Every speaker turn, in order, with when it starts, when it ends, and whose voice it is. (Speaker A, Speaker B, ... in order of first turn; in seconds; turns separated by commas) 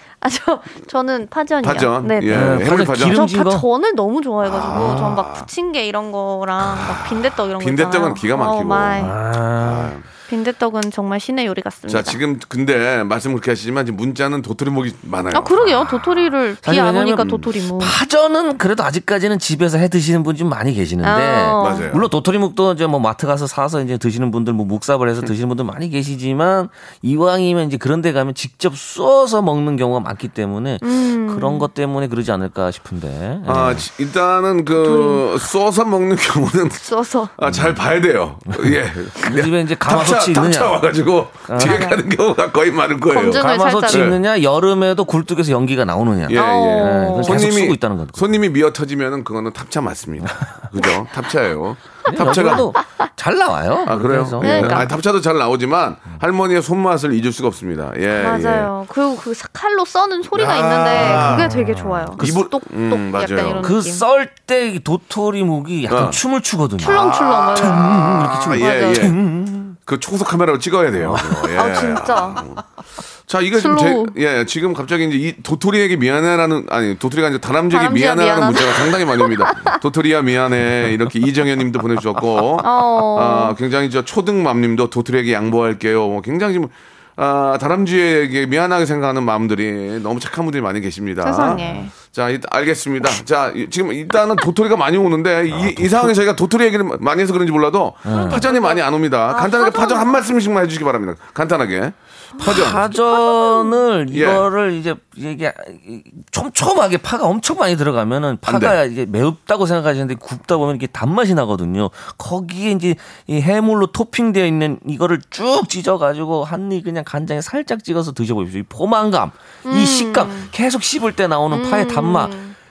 Speaker A: 0.2-9.2, Speaker B: 1.6-3.2, Speaker C: 2.3-3.6, Speaker B: 4.4-5.5, Speaker B: 6.6-10.1, Speaker C: 9.0-9.9, Speaker A: 10.3-12.2, Speaker B: 11.9-16.1, Speaker A: 15.3-18.0, Speaker C: 16.6-33.8, Speaker A: 21.0-21.9, Speaker B: 21.6-22.1, Speaker A: 30.8-31.7, Speaker B: 33.5-44.2, Speaker A: 34.8-35.3, Speaker A: 36.8-37.3, Speaker C: 37.5-37.8, Speaker C: 38.6-40.9, Speaker C: 41.5-41.9, Speaker A: 41.6-42.0, Speaker A: 43.1-44.1, Speaker C: 43.4-48.3, Speaker B: 46.3-52.7, Speaker A: 46.3-47.4, Speaker C: 52.1-54.9, Speaker B: 53.9-58.7, Speaker A: 54.4-54.9, Speaker A: 58.2-64.0, Speaker B: 60.3-61.5, Speaker C: 61.0-62.4, Speaker B: 62.2-63.7, Speaker C: 63.6-69.8, Speaker B: 65.9-66.2, Speaker A: 66.8-69.1, Speaker B: 66.9-69.2, Speaker B: 69.8-72.6, Speaker C: 71.0-71.4, Speaker A: 71.5-72.5, Speaker B: 73.3-102.8, Speaker A: 73.5-74.2, Speaker A: 77.7-79.8, Speaker A: 82.6-83.6, Speaker A: 91.2-91.9, Speaker C: 95.5-96.1, Speaker C: 98.1-98.4, Speaker A: 98.1-100.2, Speaker A: 102.4-103.8, Speaker C: 102.4-122.4, Speaker B: 104.1-104.5, Speaker B: 108.5-108.8, Speaker A: 119.7-120.5, Speaker A: 121.5-122.5